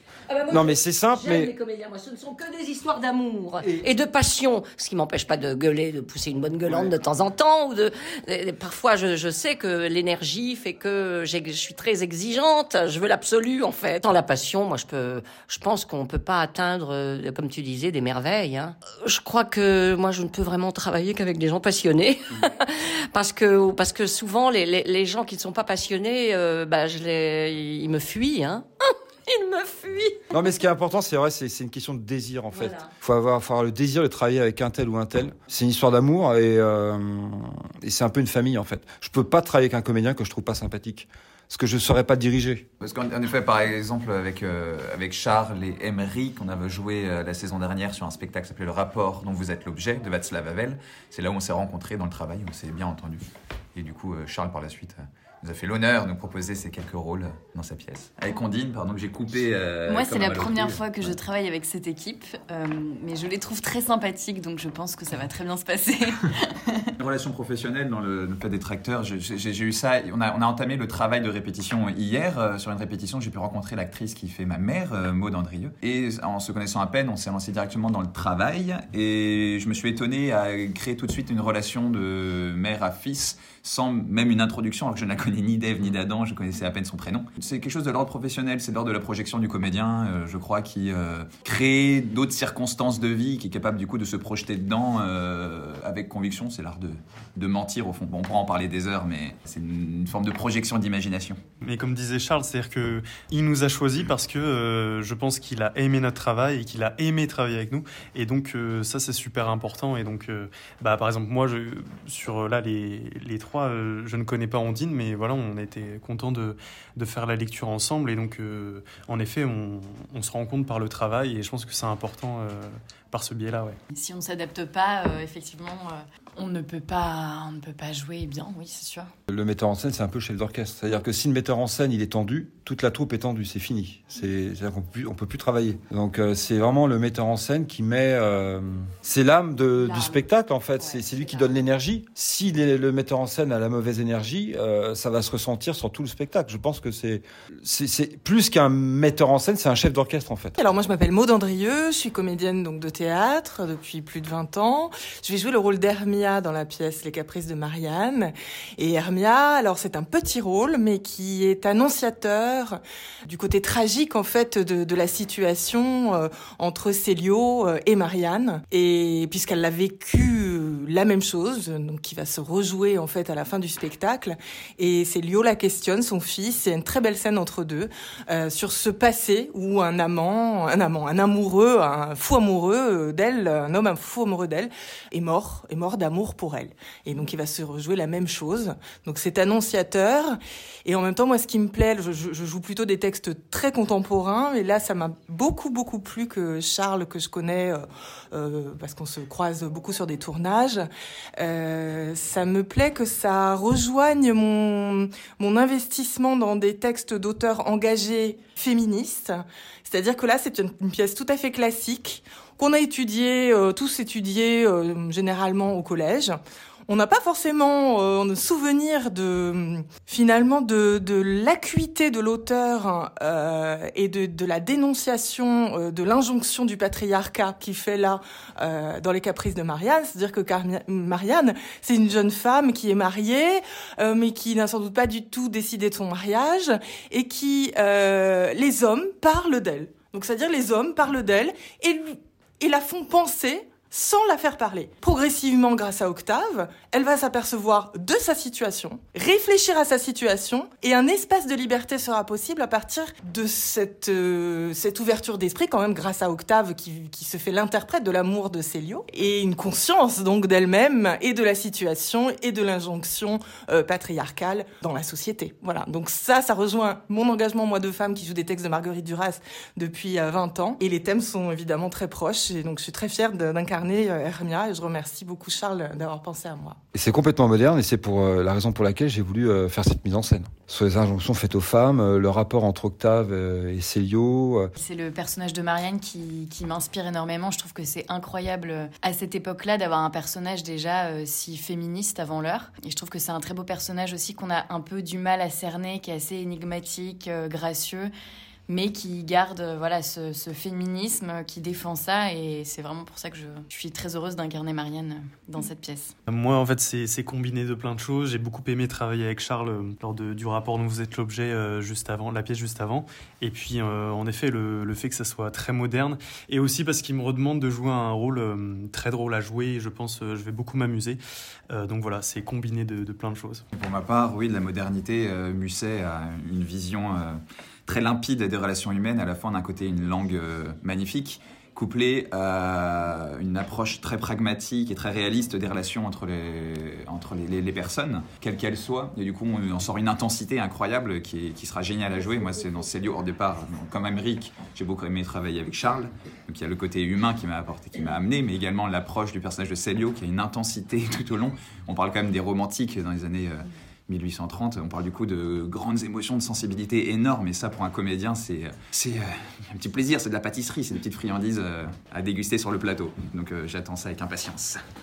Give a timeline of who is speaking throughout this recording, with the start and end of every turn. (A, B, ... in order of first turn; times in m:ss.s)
0:00.3-0:30.2 A
0:00.5-0:01.5 B
0:03.6-0:03.8 B
0:30.3-0:42.6 B
0:32.5-0:32.9 A
0:42.8-1:01.2 C
0:59.8-1:06.9 D
1:07.0-1:41.4 C
1:41.6-2:03.7 E
2:03.9-2:09.1 D
2:09.3-2:30.6 B
2:19.8-2:20.2 D
2:20.8-2:21.6 D
2:30.6-3:20.8 F
3:21.4-4:36.8 F
4:36.9-4:44.7 B
4:44.8-4:58.1 D
4:58.7-5:06.1 D
5:06.3-5:21.2 E
5:21.7-5:23.6 E
5:23.7-6:04.8 C